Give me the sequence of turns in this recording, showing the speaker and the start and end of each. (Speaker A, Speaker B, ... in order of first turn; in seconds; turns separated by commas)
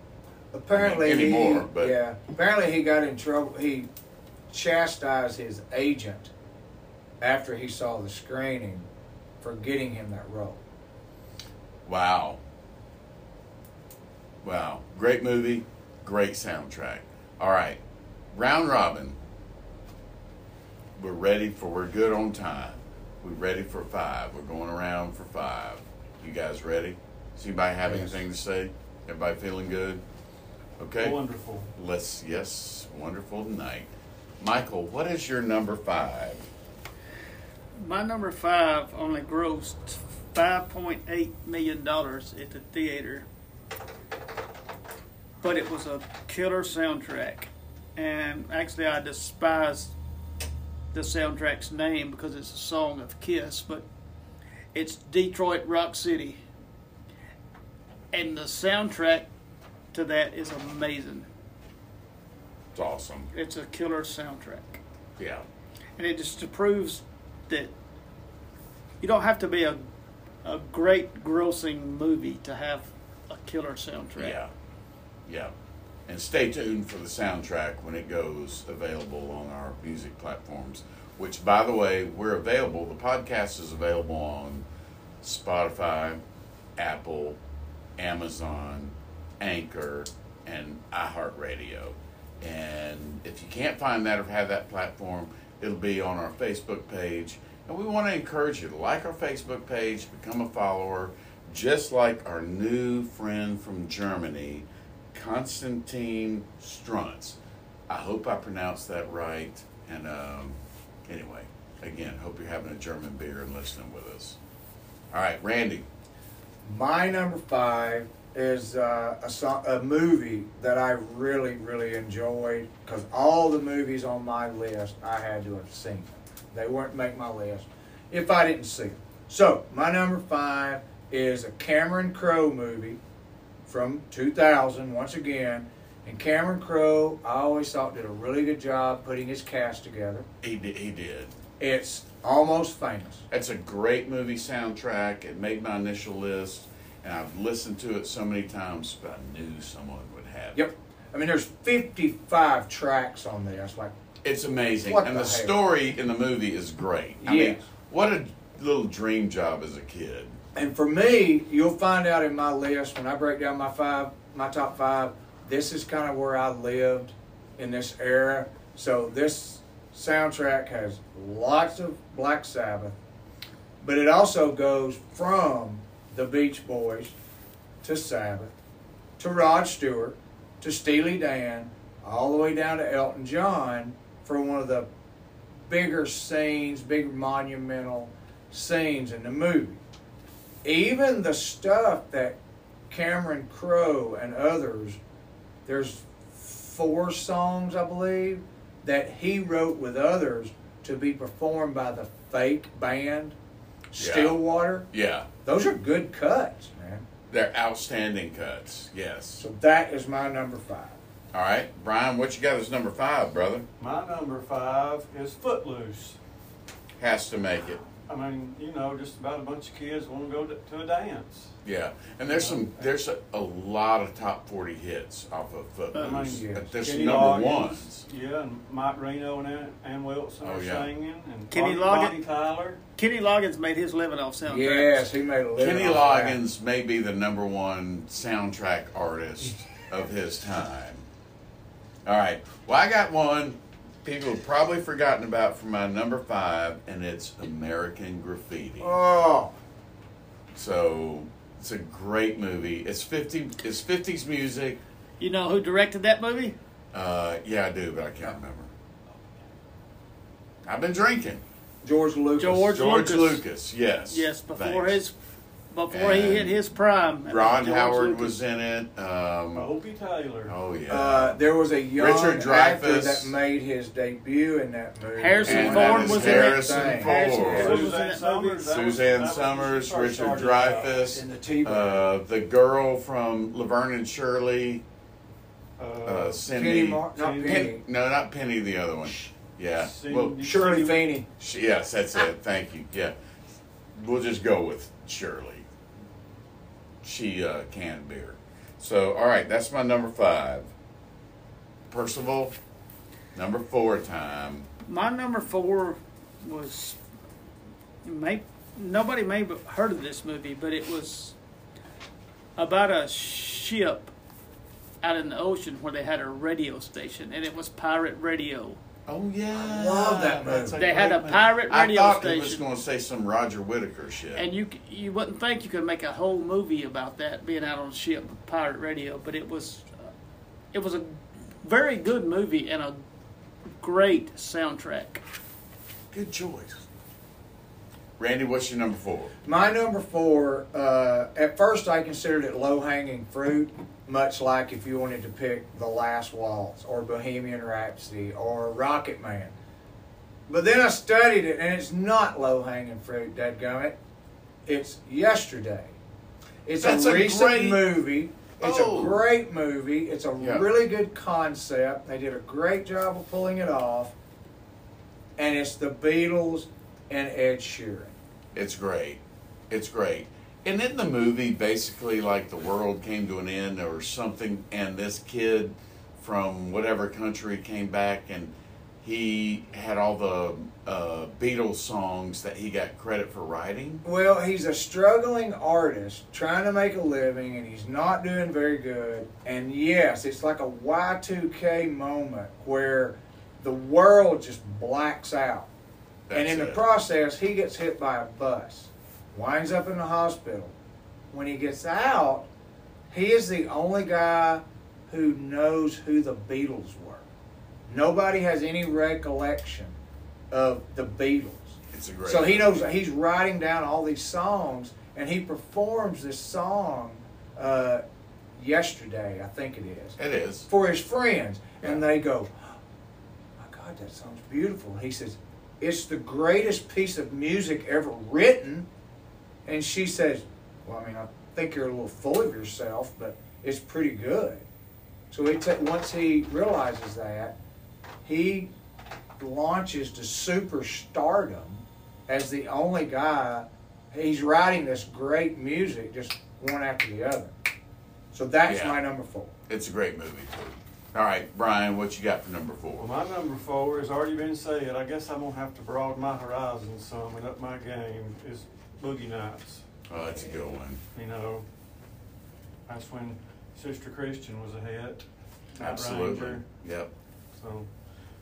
Speaker A: 0.5-3.9, Speaker B: 0.7-1.9, Speaker A: 4.5-6.3, Speaker A: 7.2-8.9, Speaker A: 9.4-10.6, Speaker B: 11.8-12.4, Speaker B: 14.4-17.8, Speaker B: 18.3-19.2, Speaker B: 21.0-30.0, Speaker A: 27.8-28.2, Speaker B: 30.8-31.2, Speaker C: 31.0-31.7, Speaker B: 31.7-33.9, Speaker B: 34.4-36.4, Speaker D: 37.8-43.2, Speaker D: 45.4-49.9, Speaker D: 50.9-53.8, Speaker D: 54.7-56.4, Speaker D: 58.1-59.3, Speaker D: 59.9-61.3, Speaker B: 62.7-63.3, Speaker D: 63.3-64.8, Speaker B: 65.2-65.4, Speaker D: 66.0-67.7, Speaker D: 69.0-69.8, Speaker D: 70.4-74.4, Speaker B: 74.2-74.5, Speaker B: 75.2-75.5, Speaker B: 76.1-84.6, Speaker B: 85.2-86.2, Speaker B: 86.8-87.4, Speaker B: 88.0-107.4, Speaker B: 107.9-114.4, Speaker B: 115.1-115.9, Speaker A: 116.6-133.0, Speaker A: 133.7-140.2, Speaker B: 140.4-141.3, Speaker A: 141.6-143.2, Speaker B: 143.3-150.6, Speaker A: 150.5-153.9, Speaker B: 154.2-160.4, Speaker A: 154.8-155.5, Speaker A: 157.2-157.7, Speaker A: 160.5-172.9, Speaker A: 173.8-177.1, Speaker A: 177.8-178.5, Speaker A: 179.2-184.9, Speaker A: 185.7-189.8, Speaker A: 190.6-192.4, Speaker A: 192.9-195.0, Speaker A: 195.7-203.3, Speaker A: 203.9-204.9, Speaker B: 204.0-204.4, Speaker B: 204.9-205.3, Speaker A: 205.4-207.0, Speaker B: 207.3-209.4, Speaker A: 209.4-211.0, Speaker B: 211.3-213.7, Speaker C: 213.8-216.2, Speaker B: 217.0-217.8, Speaker C: 218.1-221.6, Speaker B: 221.6-228.1, Speaker C: 222.3-222.9, Speaker D: 225.9-226.2, Speaker C: 225.9-232.8, Speaker A: 226.3-226.7, Speaker B: 230.4-230.9, Speaker D: 231.5-232.2, Speaker D: 233.0-235.0, Speaker A: 234.4-236.4, Speaker B: 235.6-241.0, Speaker B: 242.1-249.0, Speaker A: 248.8-249.5, Speaker B: 250.5-254.8, Speaker D: 255.2-256.6, Speaker B: 256.9-258.7, Speaker B: 260.6-261.4, Speaker A: 261.8-262.7, Speaker D: 262.4-263.4, Speaker B: 262.6-265.0, Speaker D: 264.1-265.1, Speaker D: 265.7-268.3, Speaker B: 265.9-266.6, Speaker B: 267.3-269.7, Speaker C: 269.5-270.5, Speaker B: 270.4-271.4, Speaker A: 270.9-277.9, Speaker B: 271.9-273.3, Speaker D: 275.1-279.0, Speaker B: 275.4-277.9, Speaker C: 277.4-281.2, Speaker B: 278.7-284.8, Speaker A: 280.2-282.0, Speaker C: 285.8-286.4, Speaker B: 286.0-290.4, Speaker A: 286.5-287.8, Speaker C: 287.1-287.7, Speaker C: 289.8-291.1, Speaker A: 290.4-291.2, Speaker B: 291.4-293.1, Speaker B: 293.9-295.6, Speaker B: 297.0-300.7, Speaker B: 301.9-302.5, Speaker B: 303.3-304.7, Speaker D: 304.8-307.0, Speaker D: 308.0-311.3, Speaker D: 312.6-314.1, Speaker D: 315.0-318.8, Speaker B: 319.1-324.5, Speaker A: 319.5-320.8, Speaker D: 320.7-322.6, Speaker D: 324.3-330.1, Speaker D: 330.7-333.0, Speaker D: 333.8-335.2, Speaker B: 336.1-336.8, Speaker B: 338.2-339.3, Speaker A: 339.4-349.5, Speaker A: 350.5-353.9, Speaker A: 354.6-356.0, Speaker A: 356.6-364.1, Speaker B: 356.8-357.9, Speaker B: 358.6-359.2, Speaker B: 360.4-360.7, Speaker A: 365.4-368.1, Speaker B: 368.5-384.0, Speaker A: 384.0-395.7, Speaker B: 396.3-396.8, Speaker A: 396.3-400.7, Speaker A: 401.3-402.4, Speaker A: 403.1-407.3, Speaker A: 407.9-409.9, Speaker A: 410.5-418.0, Speaker B: 411.9-412.8, Speaker A: 418.6-420.2, Speaker B: 420.2-420.7, Speaker A: 420.7-422.7, Speaker A: 423.6-428.9, Speaker A: 429.6-434.6, Speaker A: 435.3-437.6, Speaker A: 438.2-438.7, Speaker A: 439.4-447.5, Speaker A: 448.3-449.5, Speaker B: 448.6-449.0, Speaker B: 449.7-453.1, Speaker C: 453.0-461.6, Speaker B: 460.1-461.0, Speaker C: 462.9-466.6, Speaker B: 465.8-467.1, Speaker C: 467.5-467.9